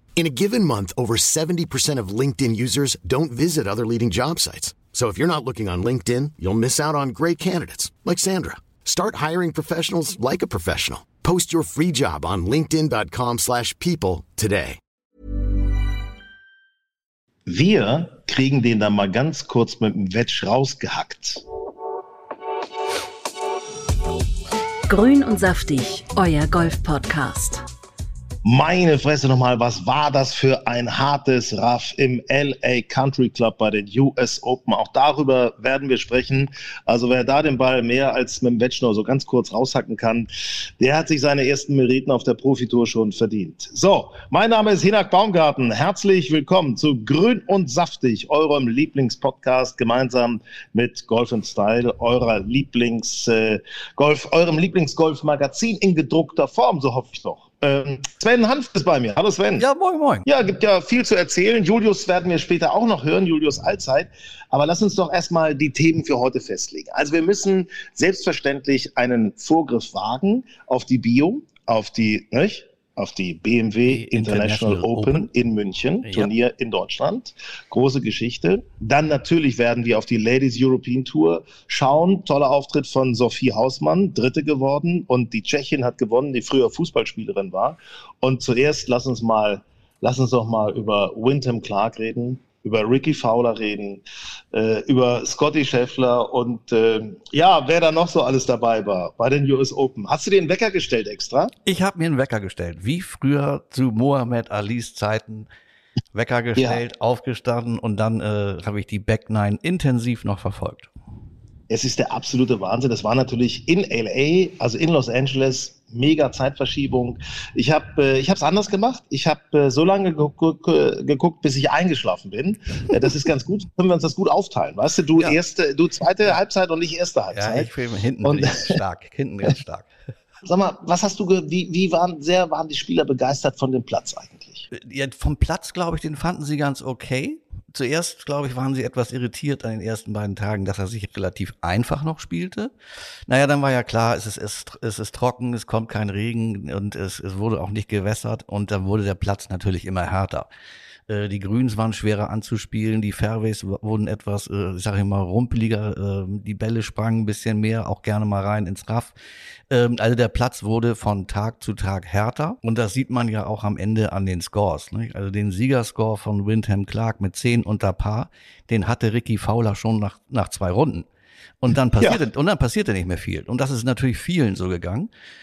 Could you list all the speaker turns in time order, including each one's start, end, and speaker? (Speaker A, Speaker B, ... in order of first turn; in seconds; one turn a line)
Speaker A: 0.2-14.8
Speaker B: 17.5-21.4
Speaker C: 24.9-27.6
Speaker B: 28.4-59.7
Speaker D: 59.6-60.3
Speaker B: 60.2-101.5
Speaker D: 73.9-75.3
Speaker D: 76.0-76.3
Speaker D: 101.7-105.5
Speaker D: 106.1-110.9
Speaker B: 106.6-106.8
Speaker B: 111.7-127.7
Speaker D: 127.3-129.9
Speaker B: 128.2-128.8
Speaker B: 130.4-134.7
Speaker D: 134.7-142.7
Speaker D: 143.3-150.5
Speaker D: 151.1-159.1
Speaker D: 159.7-171.1
Speaker D: 171.6-175.1